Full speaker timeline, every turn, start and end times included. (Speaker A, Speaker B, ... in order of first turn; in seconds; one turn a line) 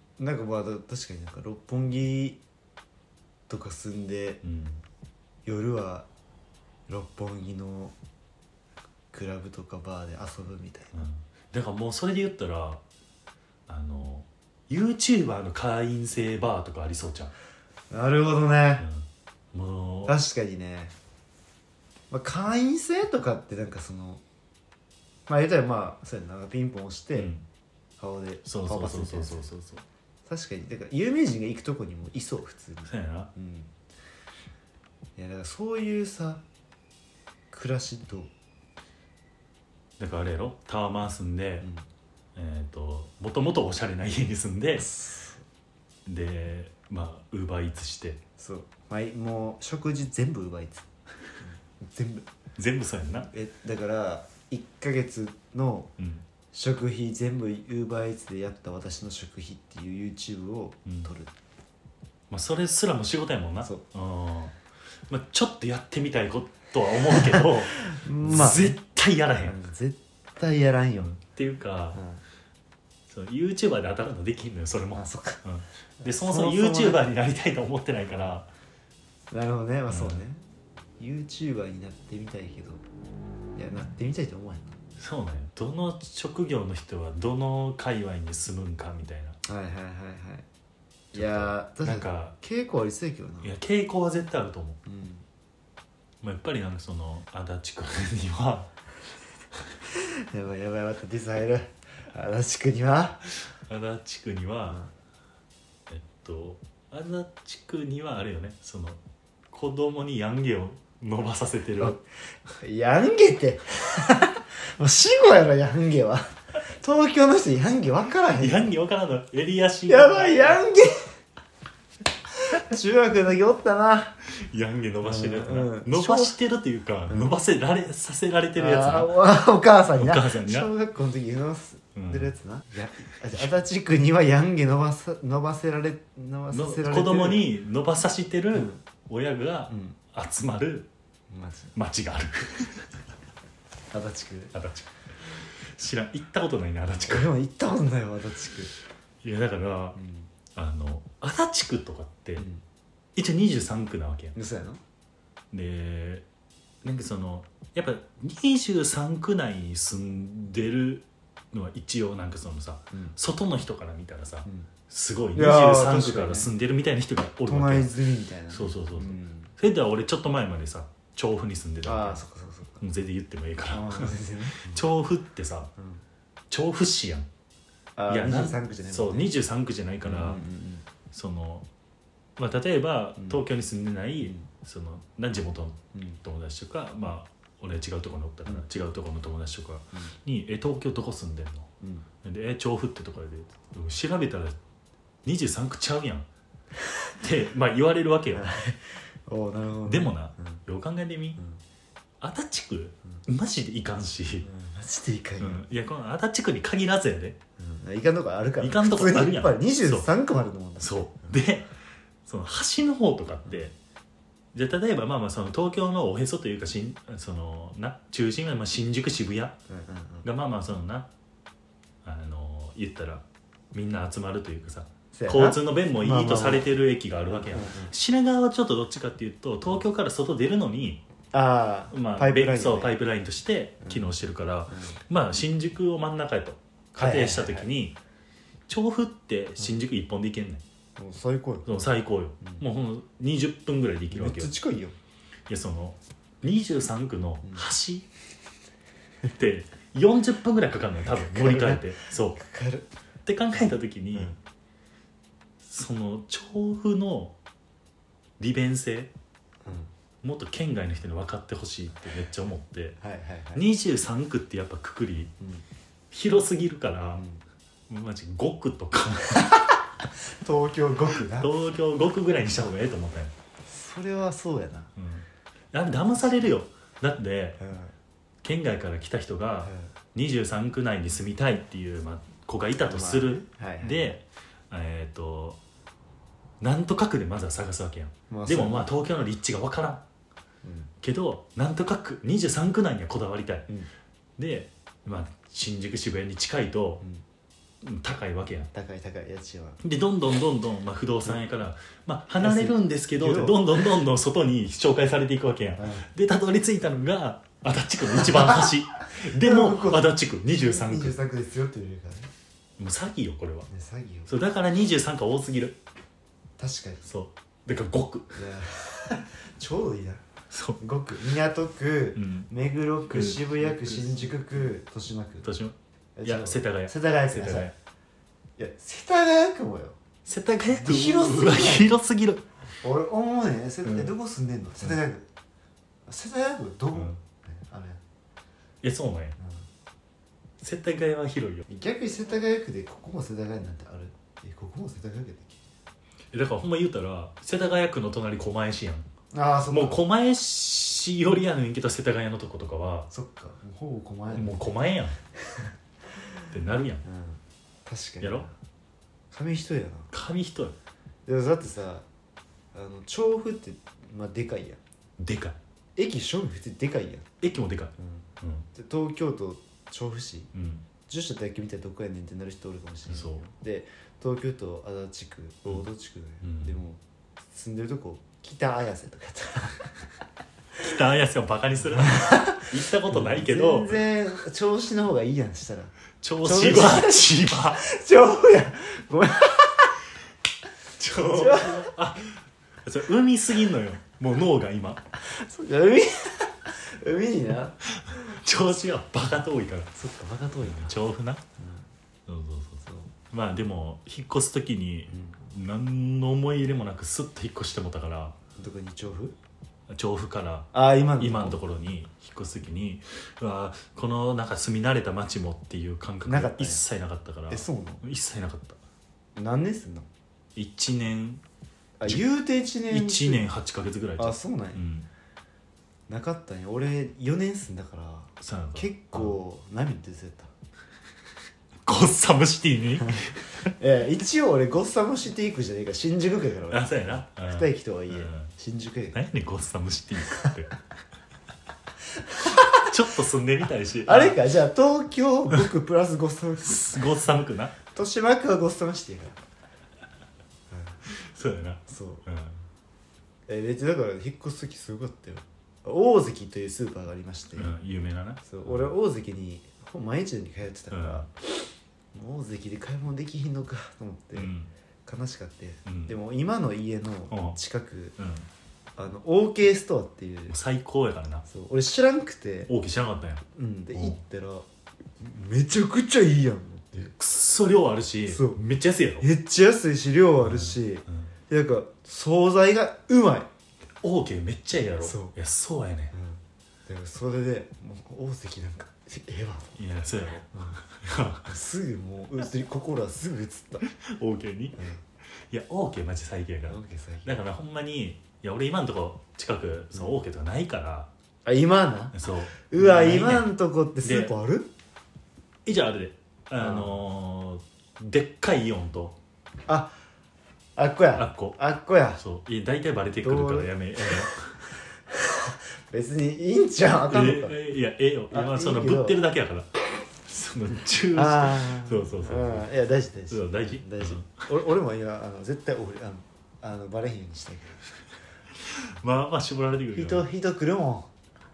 Speaker A: 0.2-2.4
Speaker A: 3.5-4.4
Speaker B: 4.4-4.8
Speaker A: 5.5-6.1
Speaker A: 6.9-7.9
Speaker A: 9.1-11.0
Speaker B: 10.9-12.8
Speaker B: 13.7-17.3
Speaker A: 17.9-18.9
Speaker B: 18.8-20.1
Speaker A: 20.1-20.9
Speaker A: 22.1-24.2
Speaker A: 25.3-27.3
Speaker B: 27.2-27.4
Speaker A: 28.0-29.5
Speaker B: 28.4-29.9
Speaker A: 30.3-33.7
Speaker B: 32.9-33.3
Speaker A: 35.2-36.4
Speaker A: 37.5-38.3
Speaker B: 40.0-41.7
Speaker A: 41.6-41.9
Speaker B: 42.4-44.9
Speaker A: 44.8-45.4
Speaker B: 46.1-48.2
Speaker A: 48.4-50.9
Speaker A: 51.4-52.3
Speaker B: 52.6-53.3
Speaker A: 53.2-55.9
Speaker B: 56.0-56.2
Speaker A: 56.5-61.3
Speaker B: 62.3-69.6
Speaker A: 67.2-68.8
Speaker A: 69.3-71.1
Speaker B: 71.0-72.0
Speaker A: 71.9-72.2
Speaker B: 73.1-78.5
Speaker A: 74.9-75.4
Speaker A: 76.0-77.0
Speaker A: 78.1-78.4
Speaker A: 79.3-80.4
Speaker B: 79.9-80.2
Speaker A: 81.0-82.8
Speaker A: 83.6-84.8
Speaker B: 85.0-89.4
Speaker A: 89.4-90.5
Speaker A: 91.1-93.5
Speaker B: 91.1-92.4
Speaker B: 93.4-94.8
Speaker A: 94.9-95.2
Speaker B: 96.2-98.7
Speaker A: 99.9-103.3
Speaker B: 103.7-104.8
Speaker B: 105.9-112.0
Speaker A: 111.8-118.7
Speaker B: 118.3-120.6
Speaker A: 119.9-121.1
Speaker A: 122.4-124.2
Speaker B: 124.3-129.2
Speaker A: 125.0-126.3
Speaker A: 127.1-127.3
Speaker A: 128.6-137.5
Speaker B: 129.9-130.7
Speaker B: 131.9-132.3
Speaker B: 136.5-140.9
Speaker A: 138.5-138.8
Speaker A: 139.7-140.0
Speaker A: 141.3-141.8
Speaker B: 141.8-142.9
Speaker A: 143.9-144.5
Speaker B: 144.5-147.3
Speaker A: 147.0-148.7
Speaker B: 149.2-150.0
Speaker A: 150.0-150.3
Speaker B: 150.5-152.5
Speaker A: 152.4-152.6
Speaker B: 153.2-154.3
Speaker A: 154.3-154.8
Speaker B: 155.5-156.2
Speaker B: 156.8-167.9
Speaker A: 165.3-166.5
Speaker A: 167.5-169.5
Speaker B: 168.5-172.2
Speaker A: 171.8-172.8
Speaker B: 172.8-175.7
Speaker A: 173.7-174.8
Speaker A: 175.8-176.0
Speaker B: 176.5-177.3
Speaker A: 178.0-179.3
Speaker B: 178.1-180.4
Speaker A: 180.0-180.8
Speaker B: 181.1-181.7
Speaker B: 182.4-191.7
Speaker A: 184.2-184.5
Speaker A: 185.9-186.2
Speaker A: 191.8-192.1
Speaker B: 192.2-194.6
Speaker B: 195.2-196.3
Speaker B: 197.2-198.5
Speaker A: 198.3-200.6
Speaker B: 199.9-201.4
Speaker B: 202.2-204.5
Speaker A: 204.4-205.6
Speaker B: 205.4-207.4
Speaker A: 207.6-211.4
Speaker B: 208.6-210.1
Speaker B: 210.8-211.7
Speaker B: 212.2-213.7
Speaker B: 214.5-219.6
Speaker A: 219.7-220.3
Speaker B: 220.2-221.1
Speaker B: 222.0-231.0
Speaker A: 225.1-226.7
Speaker A: 227.3-227.9
Speaker A: 231.3-233.0
Speaker B: 231.9-238.0
Speaker A: 233.8-234.1
Speaker A: 234.7-235.0
Speaker A: 237.0-237.7
Speaker B: 238.7-240.6
Speaker A: 241.0-241.8
Speaker B: 241.7-244.5
Speaker A: 242.4-242.7
Speaker A: 244.1-244.9
Speaker B: 245.5-248.1
Speaker B: 249.3-252.4
Speaker A: 251.3-252.9
Speaker B: 253.3-254.4
Speaker B: 255.6-257.4
Speaker B: 258.4-259.1
Speaker A: 259.6-259.9
Speaker B: 260.2-263.0
Speaker A: 263.0-263.7
Speaker B: 263.5-265.3
Speaker B: 266.1-267.2
Speaker A: 267.1-267.4
Speaker B: 267.9-269.6
Speaker A: 270.3-271.5
Speaker B: 271.2-273.3
Speaker A: 273.7-274.9
Speaker B: 275.0-277.6
Speaker A: 277.6-277.9
Speaker B: 278.4-285.6
Speaker A: 279.6-279.9
Speaker A: 282.8-284.2
Speaker B: 286.6-290.0
Speaker A: 288.3-288.9
Speaker A: 290.6-290.9
Speaker B: 291.0-293.7
Speaker B: 294.4-297.0
Speaker B: 297.8-298.7
Speaker A: 298.7-299.8
Speaker B: 299.8-311.2
Speaker A: 302.4-303.7
Speaker A: 305.8-306.1
Speaker A: 308.2-312.3
Speaker B: 312.8-313.7
Speaker A: 313.7-314.3
Speaker B: 314.3-315.8
Speaker A: 316.6-317.1
Speaker B: 317.0-318.4
Speaker A: 318.3-320.2
Speaker B: 320.5-320.8
Speaker A: 320.8-325.5
Speaker B: 322.2-322.5
Speaker B: 323.1-324.4
Speaker B: 325.4-327.8
Speaker A: 326.2-327.7
Speaker A: 328.6-330.0
Speaker B: 330.2-332.4
Speaker A: 330.7-331.9
Speaker A: 332.8-335.3
Speaker B: 333.9-334.1
Speaker A: 336.1-338.0
Speaker B: 338.8-339.4
Speaker A: 339.4-339.6
Speaker B: 340.6-341.7
Speaker A: 341.7-345.6
Speaker B: 346.3-349.1
Speaker A: 349.3-350.0
Speaker B: 349.7-353.1
Speaker A: 353.1-354.7
Speaker B: 354.3-355.2
Speaker B: 356.5-357.0
Speaker A: 357.1-358.5
Speaker B: 358.2-358.5
Speaker A: 359.3-360.1
Speaker B: 360.1-360.8
Speaker A: 361.3-362.1
Speaker A: 362.7-364.8
Speaker B: 365.2-365.6
Speaker A: 366.0-367.3
Speaker B: 367.4-368.7
Speaker A: 368.0-370.5
Speaker B: 370.5-370.9
Speaker A: 371.1-379.9
Speaker B: 373.1-373.4
Speaker B: 376.4-376.8
Speaker B: 380.8-384.0
Speaker A: 382.0-389.9
Speaker B: 386.2-387.8
Speaker B: 391.0-395.0
Speaker A: 391.1-391.9
Speaker A: 395.2-397.8
Speaker B: 397.9-399.9
Speaker A: 399.9-401.0
Speaker B: 400.6-401.4
Speaker A: 401.6-401.9
Speaker B: 402.3-408.4
Speaker A: 402.9-403.1
Speaker A: 405.1-405.4
Speaker A: 408.6-409.4
Speaker B: 409.9-418.8
Speaker A: 410.7-411.6
Speaker A: 416.2-416.8
Speaker A: 417.5-418.0
Speaker A: 419.4-420.1
Speaker B: 420.6-421.4
Speaker A: 422.0-423.4
Speaker B: 422.9-425.1
Speaker A: 424.2-424.8
Speaker A: 426.1-430.5
Speaker B: 428.4-429.4
Speaker B: 431.9-433.5
Speaker A: 433.1-439.2
Speaker B: 436.7-438.5
Speaker B: 439.1-440.7
Speaker A: 442.2-442.9
Speaker B: 442.5-444.4
Speaker A: 444.1-447.2
Speaker B: 446.6-447.8
Speaker A: 447.9-449.4
Speaker A: 450.7-451.0
Speaker B: 451.1-452.6
Speaker A: 451.9-452.2
Speaker A: 453.5-457.7
Speaker B: 457.6-458.9
Speaker A: 458.4-461.3
Speaker B: 460.9-461.3
Speaker A: 462.1-464.5
Speaker B: 464.4-464.7
Speaker A: 465.1-468.2
Speaker B: 465.9-466.1
Speaker B: 467.3-467.6
Speaker B: 468.2-468.5
Speaker A: 469.0-470.6
Speaker B: 470.5-471.4
Speaker A: 471.5-472.7
Speaker B: 472.7-474.2
Speaker A: 473.5-474.7
Speaker A: 475.2-477.1
Speaker B: 477.1-479.3
Speaker A: 478.3-478.6
Speaker A: 479.2-483.5
Speaker B: 480.4-481.3
Speaker B: 484.0-486.1
Speaker A: 485.0-485.4
Speaker A: 486.1-489.7
Speaker B: 489.8-491.5
Speaker A: 490.5-490.8
Speaker A: 491.4-493.9
Speaker B: 493.9-494.8
Speaker A: 494.8-495.0
Speaker B: 495.4-501.1
Speaker A: 496.7-497.4
Speaker A: 501.4-502.2
Speaker B: 502.1-503.5
Speaker A: 502.7-504.7
Speaker B: 504.0-504.3
Speaker B: 505.6-509.2
Speaker A: 506.6-507.0
Speaker A: 509.7-509.9
Speaker A: 510.8-512.2
Speaker B: 511.1-511.6
Speaker B: 512.2-514.6
Speaker A: 513.2-514.3
Speaker A: 515.1-517.6
Speaker B: 517.1-519.7
Speaker A: 518.3-519.2
Speaker B: 520.2-522.7
Speaker A: 521.1-527.8
Speaker B: 523.3-524.4
Speaker B: 528.6-530.3
Speaker A: 529.9-531.1